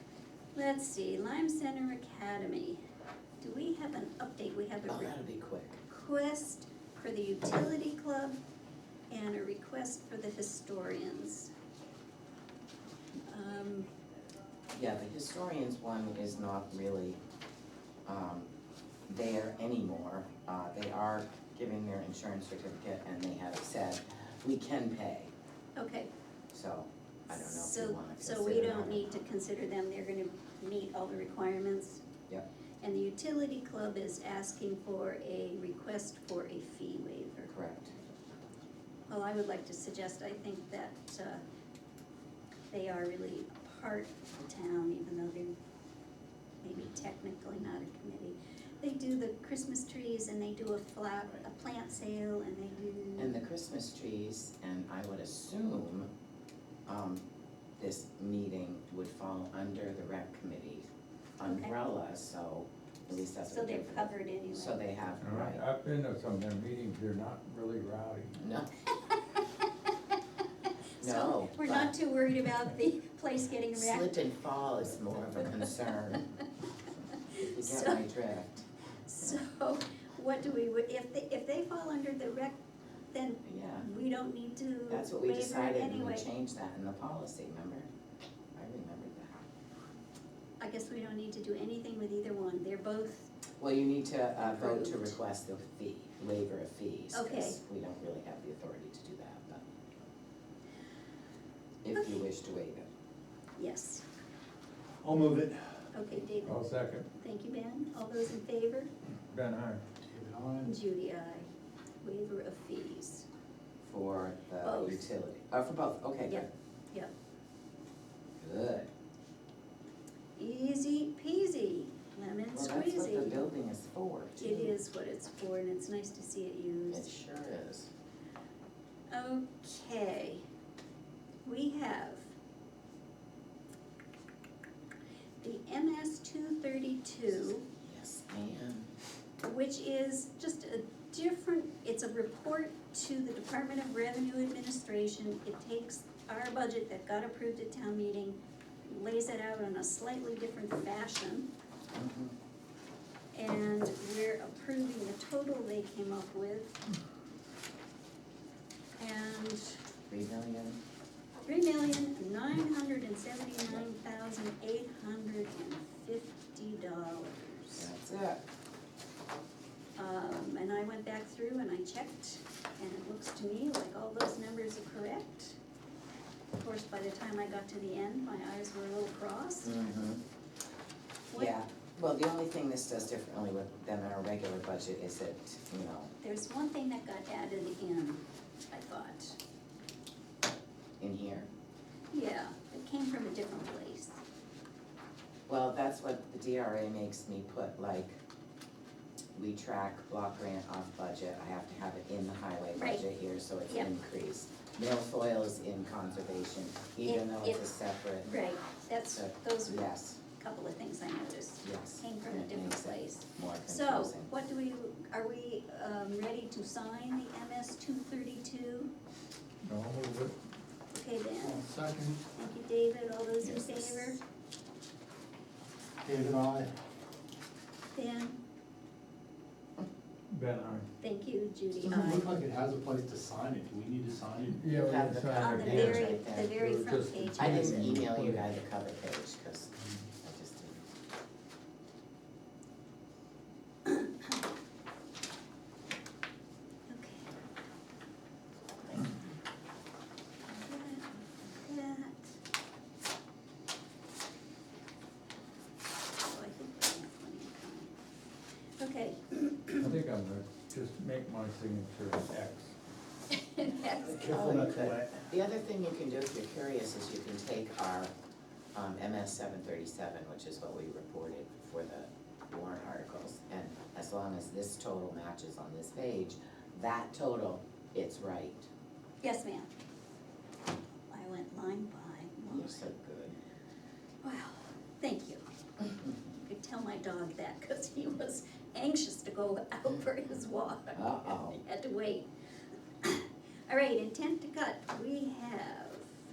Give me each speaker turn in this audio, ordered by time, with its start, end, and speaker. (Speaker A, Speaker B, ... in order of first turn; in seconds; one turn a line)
Speaker A: 0.6-2.8
Speaker A: 3.4-5.1
Speaker B: 4.9-5.8
Speaker A: 5.9-8.4
Speaker A: 9.1-11.5
Speaker A: 13.3-13.9
Speaker B: 14.7-17.2
Speaker B: 18.1-18.5
Speaker B: 19.1-25.3
Speaker A: 25.8-26.1
Speaker B: 26.5-29.2
Speaker A: 27.3-32.0
Speaker A: 32.8-37.5
Speaker B: 37.5-37.9
Speaker A: 39.1-41.4
Speaker A: 42.7-45.5
Speaker A: 46.6-53.4
Speaker B: 53.2-56.1
Speaker B: 56.9-57.2
Speaker B: 57.8-60.9
Speaker B: 61.4-65.6
Speaker A: 61.4-61.8
Speaker A: 63.4-64.8
Speaker C: 65.2-68.4
Speaker B: 68.4-68.7
Speaker B: 71.0-71.9
Speaker A: 71.0-74.2
Speaker B: 73.7-76.3
Speaker B: 77.3-78.7
Speaker A: 77.5-78.0
Speaker A: 79.1-82.6
Speaker A: 83.1-86.3
Speaker B: 83.4-83.9
Speaker B: 84.9-87.9
Speaker B: 88.6-89.4
Speaker A: 90.6-93.3
Speaker B: 93.6-99.6
Speaker A: 94.4-95.2
Speaker A: 97.1-97.6
Speaker B: 101.8-102.9
Speaker A: 102.0-102.2
Speaker A: 103.6-104.0
Speaker D: 105.0-105.6
Speaker A: 105.9-108.9
Speaker C: 106.4-107.1
Speaker C: 109.3-109.8
Speaker D: 110.0-110.7
Speaker A: 110.6-111.5
Speaker A: 112.0-113.2
Speaker B: 113.8-116.5
Speaker A: 114.6-115.1
Speaker A: 116.3-117.1
Speaker B: 118.4-118.9
Speaker A: 120.4-123.5
Speaker B: 122.5-124.8
Speaker A: 124.4-127.1
Speaker B: 126.9-127.9
Speaker A: 129.1-130.4
Speaker A: 131.4-132.3
Speaker A: 135.4-137.6
Speaker B: 137.7-138.9
Speaker A: 139.4-151.5
Speaker B: 151.9-152.3
Speaker A: 153.3-156.8
Speaker A: 159.0-159.8
Speaker B: 160.1-160.8
Speaker A: 161.5-167.9
Speaker B: 167.8-168.4
Speaker A: 170.0-175.6
Speaker A: 176.6-179.8
Speaker B: 179.6-180.2
Speaker B: 181.3-186.1
Speaker A: 186.2-189.4
Speaker B: 191.0-191.5
Speaker A: 192.1-194.2
Speaker B: 195.5-198.2
Speaker B: 199.3-208.3
Speaker A: 202.8-203.0
Speaker A: 207.0-207.7
Speaker A: 208.2-218.9
Speaker B: 209.1-210.2
Speaker B: 211.6-214.3
Speaker C: 219.6-220.4
Speaker A: 220.9-221.6
Speaker D: 221.4-222.2
Speaker A: 222.4-224.2
Speaker B: 223.4-224.2
Speaker D: 226.0-226.7
Speaker A: 227.9-228.4
Speaker C: 230.3-230.9
Speaker A: 231.0-232.3
Speaker D: 231.8-234.6
Speaker C: 234.5-238.4
Speaker B: 234.8-236.6
Speaker A: 235.3-238.0
Speaker B: 237.4-240.9
Speaker A: 243.8-244.3
Speaker A: 246.9-247.4
Speaker A: 250.5-252.3
Speaker A: 256.2-258.0
Speaker A: 258.8-259.9
Speaker C: 259.8-262.7
Speaker A: 263.3-264.3
Speaker D: 264.1-265.1
Speaker B: 264.2-268.1
Speaker B: 268.8-278.7
Speaker A: 279.2-279.7
Speaker A: 281.1-282.9
Speaker B: 282.5-283.4
Speaker A: 284.2-285.4
Speaker A: 286.4-292.3
Speaker B: 290.9-291.6
Speaker A: 293.0-296.1